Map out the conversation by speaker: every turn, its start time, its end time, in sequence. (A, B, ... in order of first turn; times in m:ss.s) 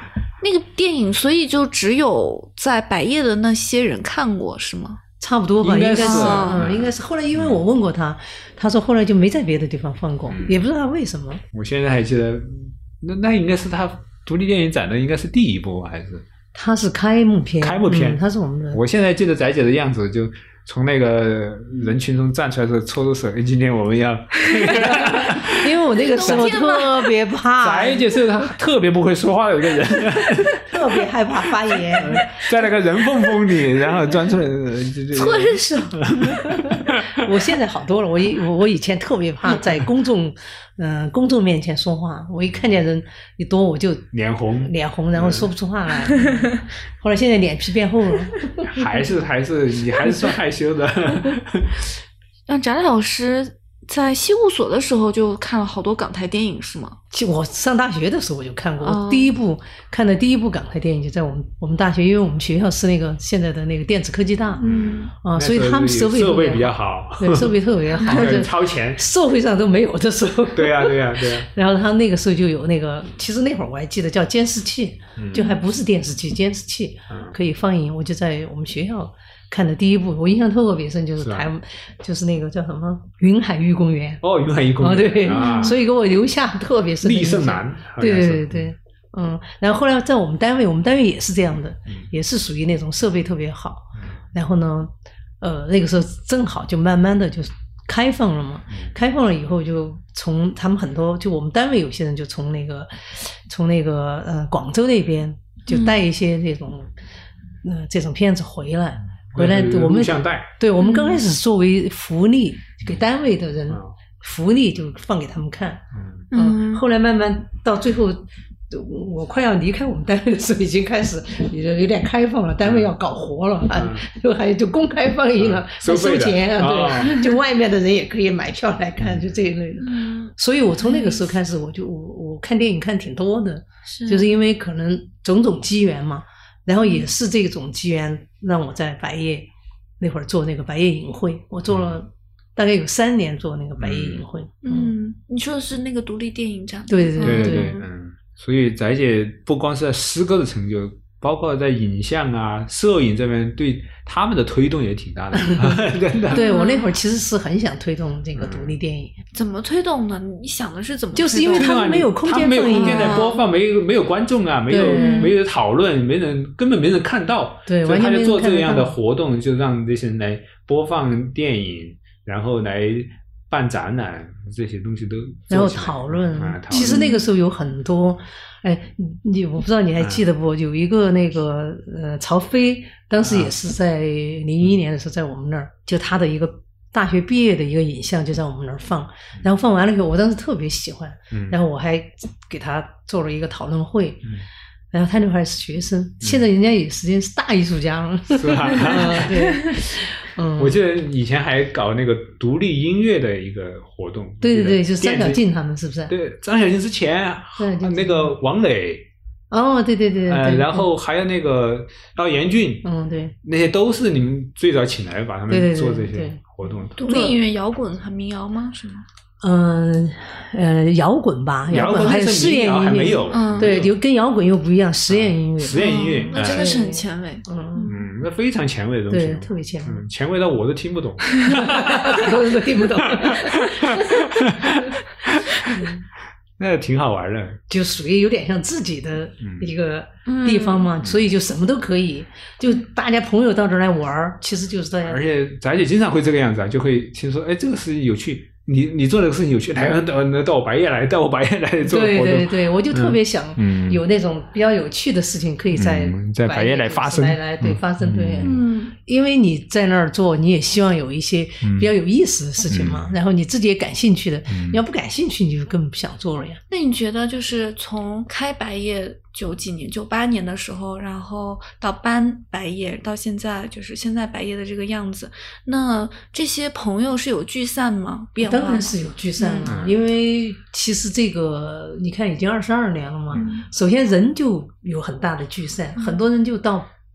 0:00.4-0:05.0 A
0:05.2-0:11.4 B
0:05.6-0:07.6 C
0:06.0-0:06.6 A
0:10.3-0:10.6 C
0:11.5-0:16.3 C
0:16.5-0:18.8 B
0:17.6-0:26.5 C
0:24.7-0:28.2 B
0:26.0-0:27.1 A
0:27.6-0:30.6 C
0:30.6-0:32.5 B
0:31.7-0:37.2 C
0:35.1-0:36.2 A
0:36.5-0:44.1 B
0:44.1-0:45.5 C
0:44.6-0:48.5 B
0:48.6-0:51.9 C
0:52.5-0:57.0 A
0:57.1-1:04.6 B
0:58.8-0:59.3 A
1:04.6-1:05.1 A
1:04.6-1:09.0 C
1:05.2-1:24.2 B
1:08.0-1:08.4 A
1:10.5-1:11.5 C
1:15.2-1:15.5 C
1:17.1-1:17.4 C
1:21.2-1:21.5 C
1:24.2-1:25.8 C
1:24.8-1:47.0 B
1:25.3-1:25.7 A
1:27.0-1:28.7 C
1:45.7-1:46.0 A
1:47.6-2:19.5 B
1:49.3-1:50.5 C
1:50.8-1:51.2 A
1:55.9-1:56.3 C
1:56.3-1:56.8 A
2:02.6-2:02.9 C
2:03.7-2:04.1 C
2:05.4-2:07.3 C
2:09.0-2:09.4 C
2:09.8-2:11.2 A
2:13.9-2:14.3 A
2:16.8-2:17.1 A
2:20.0-2:24.9 B
2:21.7-2:22.0 C
2:23.8-2:24.2 C
2:24.6-2:27.8 A
2:26.9-2:27.7 B
2:27.2-2:36.4 C
2:35.4-2:39.2 B
2:36.3-2:36.9 A
2:38.4-2:38.8 C
2:39.3-2:41.7 A
2:41.2-2:43.2 B
2:41.5-2:57.2 C
2:42.7-2:43.4 A
2:44.7-2:45.3 B
2:44.9-2:45.4 A
2:47.7-2:49.0 B
2:55.5-3:14.3 B
2:56.8-2:57.3 A
3:00.0-3:00.3 C
3:03.2-3:03.6 C
3:11.3-3:11.6 C
3:14.9-3:20.8 B
3:18.3-3:19.4 C
3:20.6-3:25.4 C
3:24.4-3:26.1 B
3:26.1-3:29.1 C
3:27.6-3:28.4 B
3:29.5-3:30.9 B
3:30.3-3:32.9 C
3:32.8-3:33.4 B
3:33.4-3:37.0 C
3:35.5-3:36.4 B
3:37.0-3:39.0 A
3:37.0-3:37.4 B
3:39.4-3:47.9 B
3:41.7-3:44.0 C
3:43.3-3:43.8 A
3:45.1-3:46.8 C
3:45.7-3:48.0 A
3:47.9-3:55.9 C
3:49.1-3:50.0 B
3:51.5-3:54.9 B
3:55.7-3:56.0 B
3:56.6-3:57.6 C
3:57.7-4:05.2 B
3:59.4-3:59.7 C
4:00.3-4:00.9 A
4:05.0-4:14.0 C
4:11.8-4:26.6 B
4:15.7-4:18.6 C
4:18.4-4:18.9 A
4:21.6-4:21.9 C
4:22.7-4:23.1 C
4:24.5-4:24.8 C
4:26.7-4:39.7 A
4:38.4-4:46.9 B
4:39.7-4:40.0 C
4:43.3-4:43.7 A